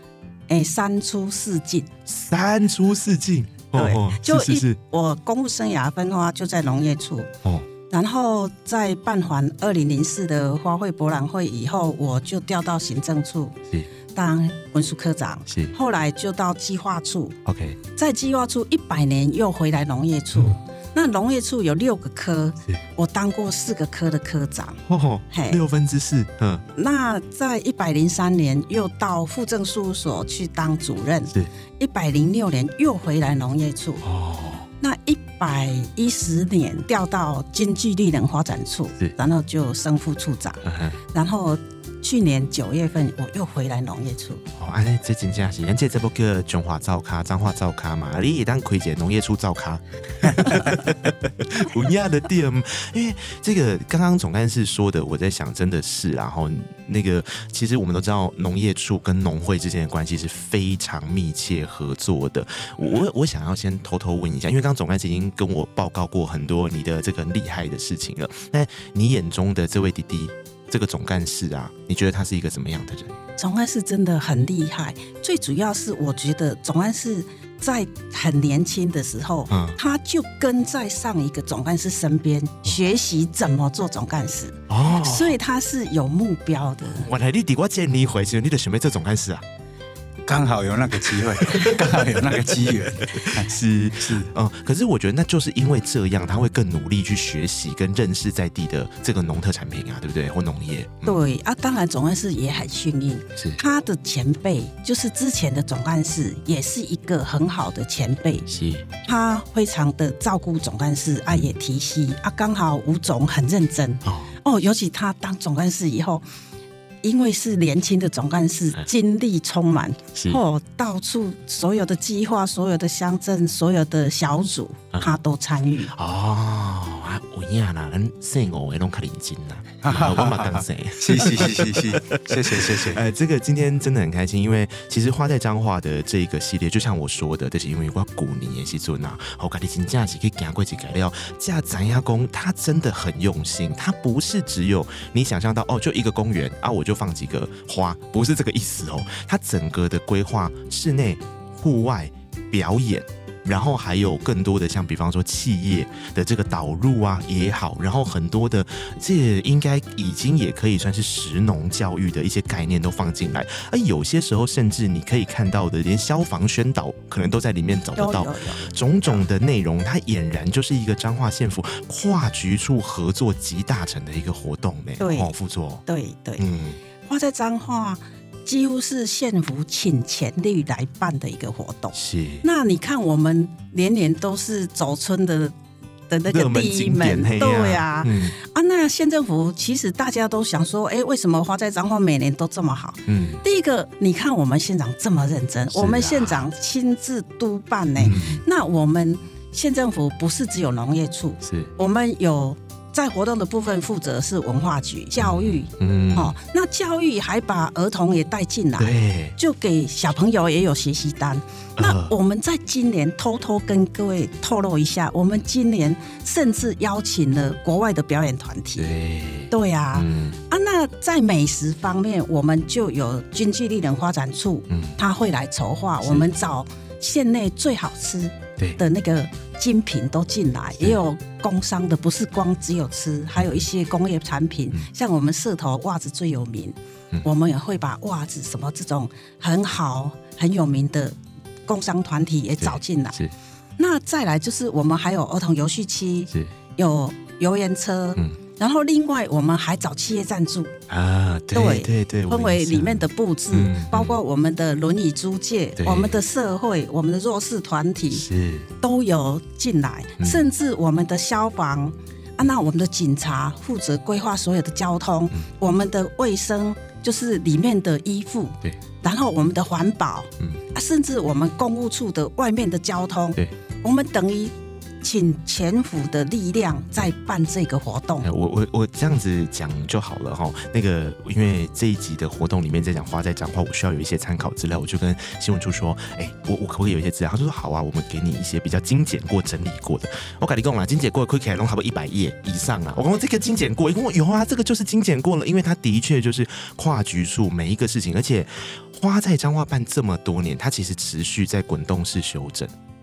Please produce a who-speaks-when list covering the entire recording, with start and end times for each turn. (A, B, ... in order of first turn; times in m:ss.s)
0:00.5-0:01.9 A
0:02.1-0:04.8 B
0:03.8-0:07.3 A
0:07.9-0:13.6 A
0:14.1-0:17.4 A
0:15.5-0:15.7 B
0:17.4-0:17.8 B
0:18.0-0:25.6 A
0:24.9-0:26.6 B
0:26.8-0:34.0 A
0:34.0-0:34.7 B
0:34.8-0:44.4 A
0:40.6-0:41.0 B
0:44.6-1:13.2 B
1:13.4-1:27.1 A
1:19.5-1:19.8 B
1:24.7-1:25.4 B
1:26.9-1:29.4 B
1:30.3-1:34.3 C
1:31.4-1:32.0 B
1:33.0-1:41.2 B
1:41.0-1:48.4 A
1:48.5-1:48.9 B
1:49.0-1:56.2 A
1:51.3-1:51.5 B
1:54.0-1:54.4 B
1:57.0-2:05.9 A
2:00.1-2:00.4 B
2:05.9-2:55.8 B
2:09.8-2:13.0 C
2:48.0-2:49.2 A
2:55.0-2:55.3 A
2:55.9-2:56.4 A
2:56.4-2:56.8 B
2:57.1-3:05.5 A
3:01.9-3:02.4 B
3:06.1-3:38.9 A
3:06.3-3:08.4 B
3:13.1-3:13.4 B
3:15.7-3:16.4 B
3:18.0-3:18.4 B
3:21.4-3:21.7 B
3:25.2-3:26.4 B
3:28.8-3:29.4 B
3:31.8-3:32.1 B
3:38.8-3:40.4 B
3:39.5-4:03.2 A
3:44.7-3:45.0 B
3:46.0-3:46.3 B
3:53.4-3:53.6 B
4:02.6-4:03.3 B
4:03.8-4:10.7 A
4:10.9-4:14.2 B
4:11.5-4:18.2 A
4:15.8-4:16.2 B
4:18.1-4:18.7 B
4:18.8-4:38.2 A
4:20.2-4:20.4 B
4:38.2-5:02.7 B